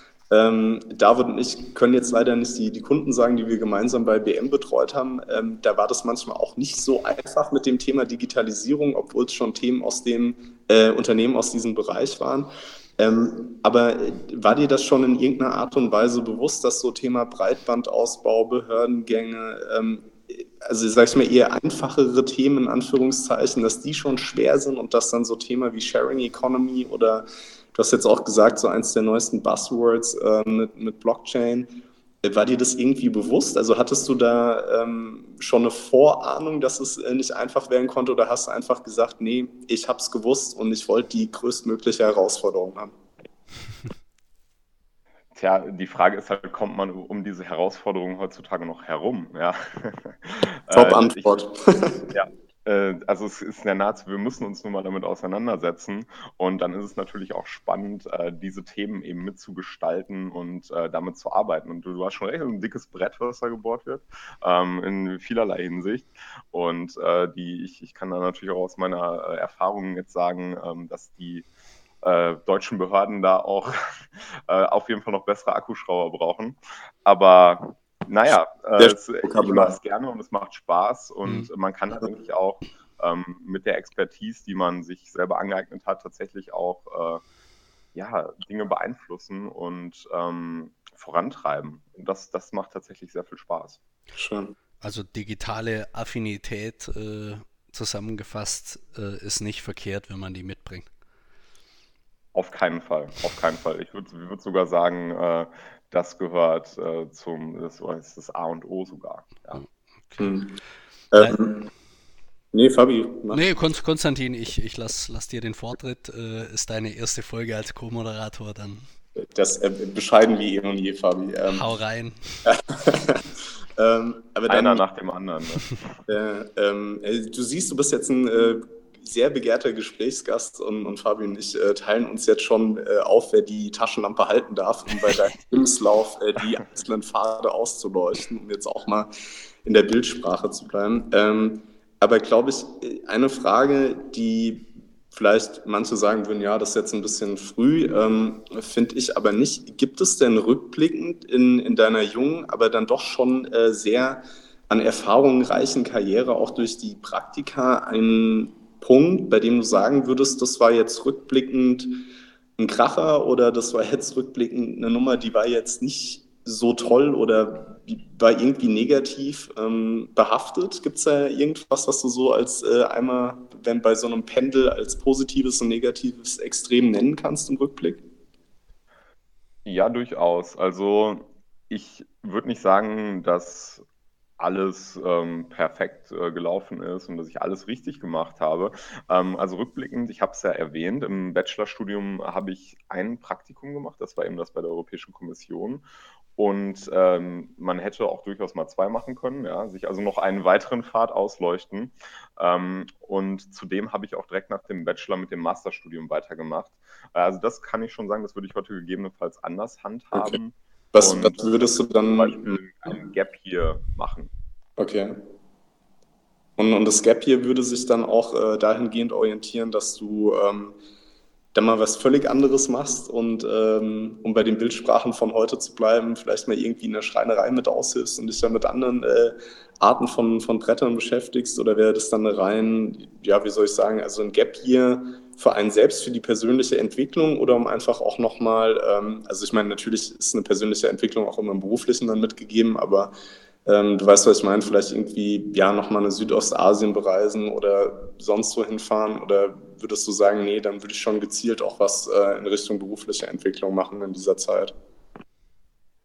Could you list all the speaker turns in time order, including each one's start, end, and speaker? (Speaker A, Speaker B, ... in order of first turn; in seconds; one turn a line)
Speaker A: 0.3-42.9
Speaker B: 45.3-51.4
Speaker A: 50.7-52.1
Speaker B: 52.1-71.5
Speaker B: 72.0-87.2
Speaker A: 78.8-79.7
Speaker B: 87.9-93.8
Speaker A: 94.1-94.5
Speaker C: 94.8-100.9
Speaker B: 102.3-109.6
Speaker C: 109.5-110.3
Speaker A: 110.2-110.5
Speaker A: 111.1-111.7
Speaker A: 112.5-113.4
Speaker C: 113.3-118.9
Speaker A: 119.2-121.7
Speaker C: 121.5-122.5
Speaker A: 122.4-124.8
Speaker B: 124.5-126.0
Speaker A: 126.1-139.1
Speaker A: 139.6-178.0
Speaker B: 179.6-183.8
Speaker B: 184.4-195.8
Speaker B: 196.3-214.3
Speaker A: 210.9-212.6
Speaker A: 214.8-215.2
Speaker A: 216.6-220.7
Speaker A: 221.5-243.1
Speaker A: 243.7-254.7